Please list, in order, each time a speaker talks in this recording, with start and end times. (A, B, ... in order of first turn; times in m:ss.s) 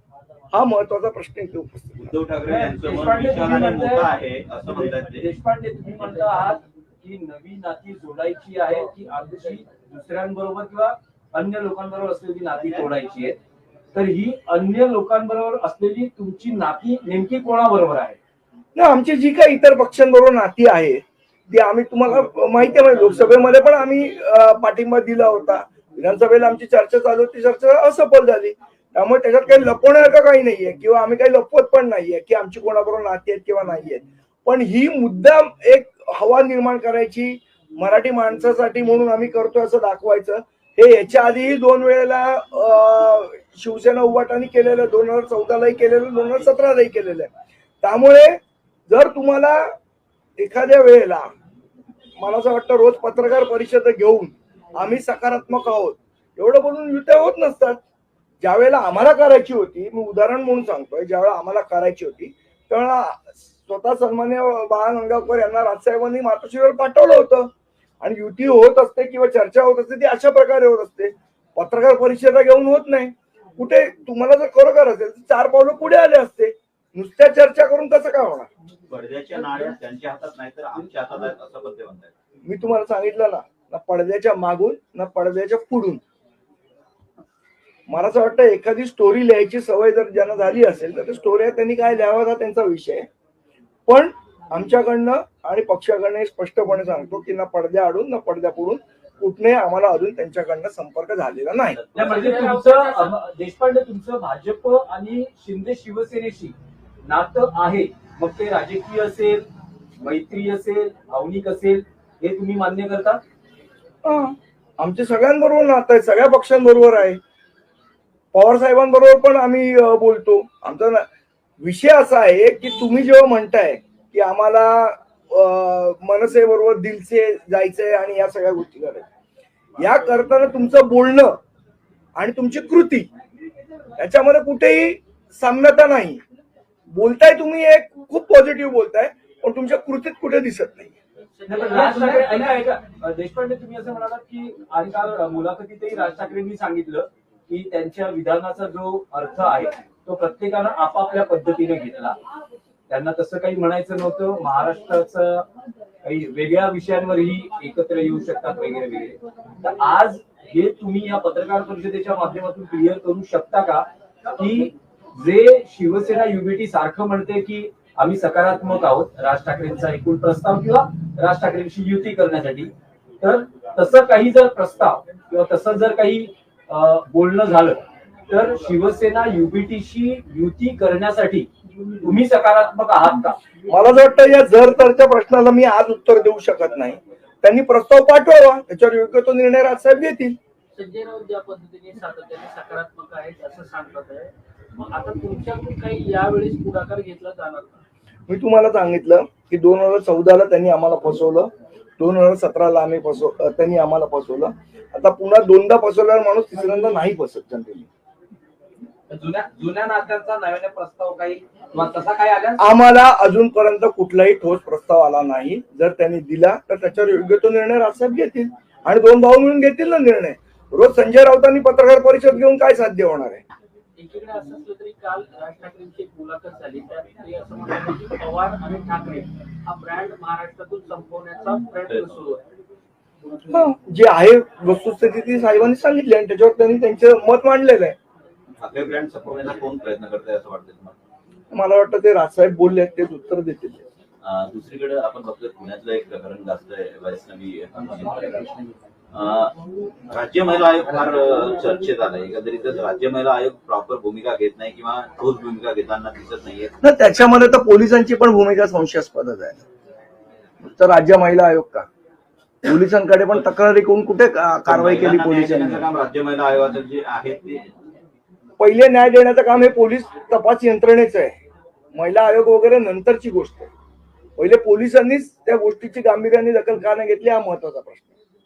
0:00.5-0:02.2 A
0:02.0-0:05.3 B
0:02.4-0:04.1 C
0:05.0-0:13.4 C
0:13.9-0:18.2 C
0:18.7-0:47.3 A
0:47.8-0:49.7 A
0:50.4-0:51.2 A
0:52.2-0:57.8 A
0:58.4-1:07.5 A
1:08.0-1:18.5 A
1:18.9-1:22.1 B
1:22.4-1:26.0 A
1:27.9-1:33.1 A
1:33.9-1:41.8 A
1:41.7-1:42.2 B
1:41.9-1:49.4 C
1:42.0-1:43.2 D
1:50.0-1:53.2 C
1:54.0-1:57.2 A
1:58.3-2:01.0 A
2:01.6-2:09.1 A
2:09.8-2:11.4 A
2:12.2-2:13.1 A
2:14.0-2:16.2 A
2:16.9-2:20.9 A
2:21.2-2:22.7 D
2:21.5-2:32.2 C
2:32.9-2:35.5 C
2:36.0-3:01.5 C
3:02.0-3:03.4 C
3:03.7-3:10.4 A
3:10.7-3:17.8 D
3:18.3-3:27.9 A
3:29.1-3:32.5 E
3:29.7-3:30.5 C
3:32.6-3:43.4 A
3:44.0-3:52.4 D
3:51.9-3:52.2 B
3:53.5-3:58.0 A
3:58.6-4:01.0 B
4:01.5-4:03.8 A
4:04.2-4:08.4 B
4:07.8-4:08.7 E
4:09.1-4:09.5 B
4:10.1-4:16.8 B
4:16.8-4:19.6 A
4:20.6-4:21.9 A
4:22.6-4:25.8 A
4:24.7-4:27.7 B
4:28.6-4:31.4 A
4:31.9-4:33.7 A
4:34.4-4:38.1 A